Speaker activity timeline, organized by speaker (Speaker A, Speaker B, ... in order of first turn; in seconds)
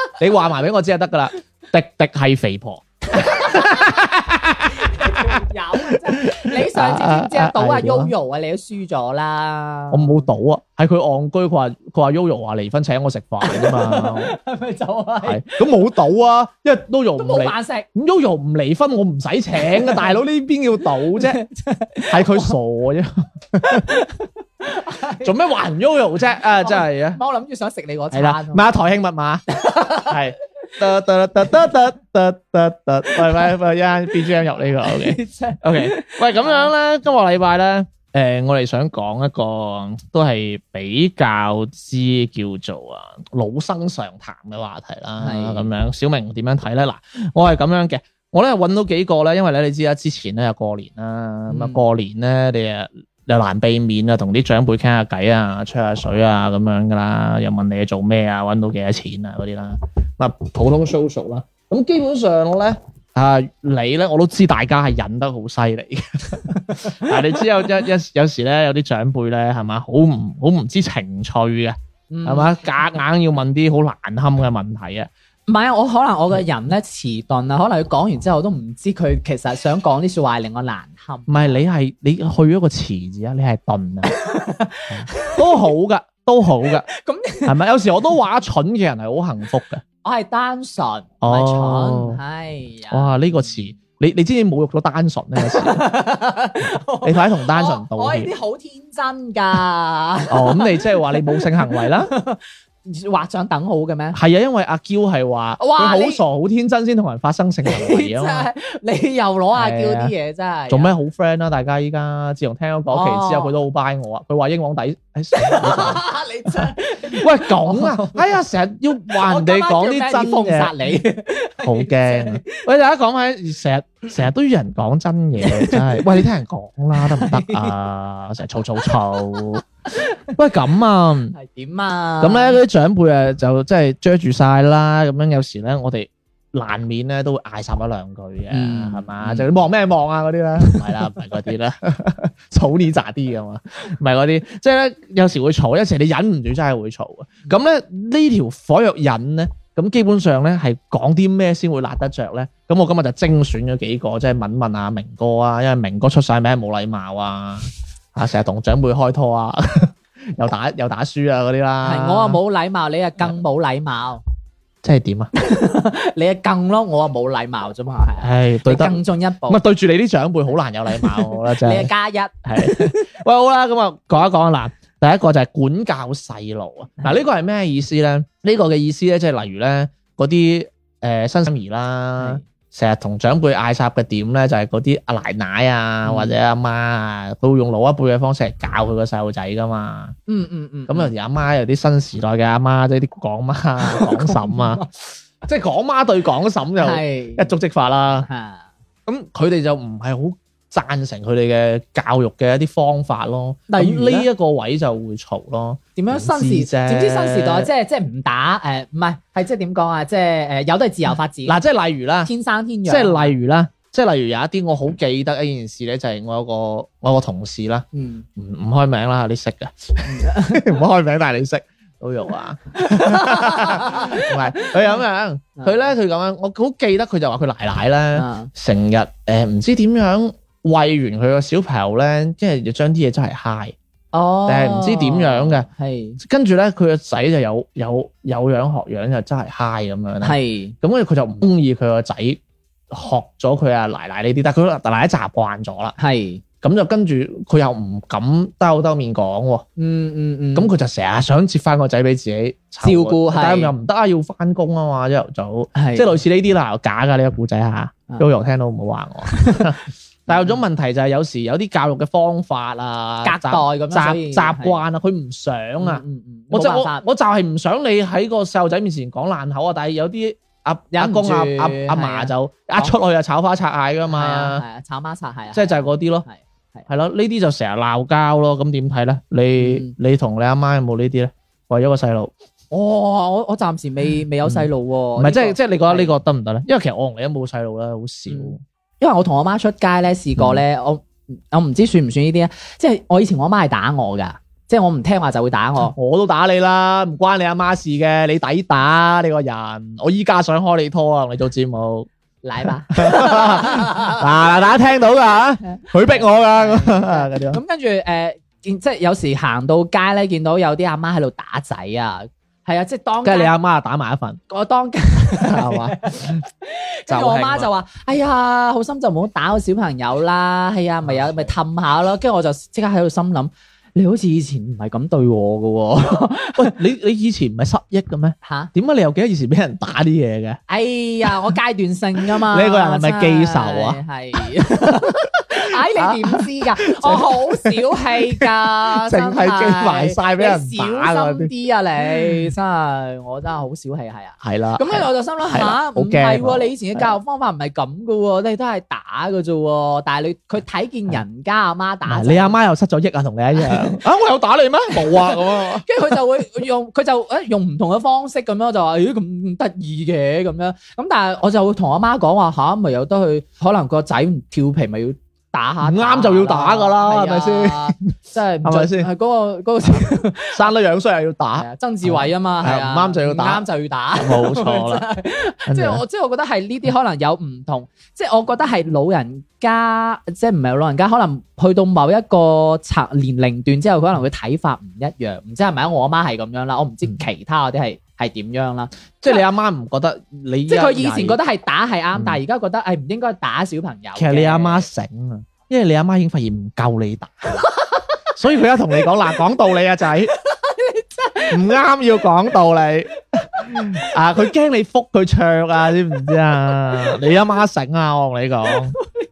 Speaker A: 0.2-5.3, 5.8-8.1, 9.9-14.4, 15.2-21.4, 22.1-24.0, 25.2-27.2, 28.1-29.4, 30.0-75.1, 81.3-84.1, 84.9-86.9, 87.5-89.8, 91.2-92.2, 92.9-95.8, 97.0-98.3, 100.3-102.1, 104.1-108.5, 109.5-110.1, 110.7-120.8, 121.6-129.7, 130.3-131.3, 132.2-162.4, 164.8-165.3, 168.2-171.9, 172.4-190.2, 190.9-194.8, 195.4-198.3, 199.1-207.7, 211.4-212.3, 212.9-217.8, 218.4-233.8, 234.5-235.7, 236.2-245.9, 246.6-249.7, 250.6-274.6, 275.5-276.3, 276.9-282.3, 284.4-288.6, 295.9-302.1, 302.6-307.6, 313.2-314.4, 315.4-316.4, 317.1-317.7, 321.1-321.5, 326.6-330.6, 332.2-334.0, 334.8-335.4, 335.9-336.4, 337.0-341.5, 344.4-347.0, 352.1-355.9, 365.8-368.0, 368.6-369.1, 369.9-373.6, 374.2-375.1, 375.7-376.0, 389.2-391.4, 392.1-392.4, 394.1-397.6, 398.4-400.3, 401.5-409.0
Speaker B: 3.2-3.8, 4.8-10.2, 13.4-15.6, 17.2-17.9, 19.6-20.1, 21.2-22.5, 23.6-25.3, 26.6-28.8, 29.5-30.2, 34.8-36.7, 45.2-45.7, 51.5-51.8, 66.5-67.3, 72.1-72.6, 75.5-81.6, 84.2-85.4, 86.9-87.6, 90.0-93.6, 95.4-104.2, 105.6-106.2, 107.7-110.9, 112.9-113.5, 115.3-118.4, 119.1-122.6, 125.4-126.2, 127.0-127.7, 131.3-132.6, 138.5-139.5, 140.6-140.9, 161.8-164.2, 165.4-169.6, 171.0-173.1, 186.1-186.3, 190.3-191.1, 193.8-194.9, 196.8-197.5, 198.2-198.7, 203.7-204.3, 206.0-211.6, 212.2-213.3, 217.9-218.2, 220.1-220.8, 222.8-224.7, 225.6-225.9, 228.1-228.5, 234.1-236.2, 240.2-240.8, 246.0-246.4, 249.8-250.7, 252.8-253.7, 255.8-256.2, 259.3-259.7, 260.3-260.6, 263.2-264.8, 265.8-267.0, 270.9-272.9, 274.1-276.9, 279.6-279.9, 282.7-286.1, 288.3-295.9, 302.4-304.2, 305.6-313.5, 314.5-326.8, 328.4-328.7, 330.7-352.6, 353.6-354.0, 355.1-370.6, 371.6-389.4, 390.7-394.9, 400.4-401.6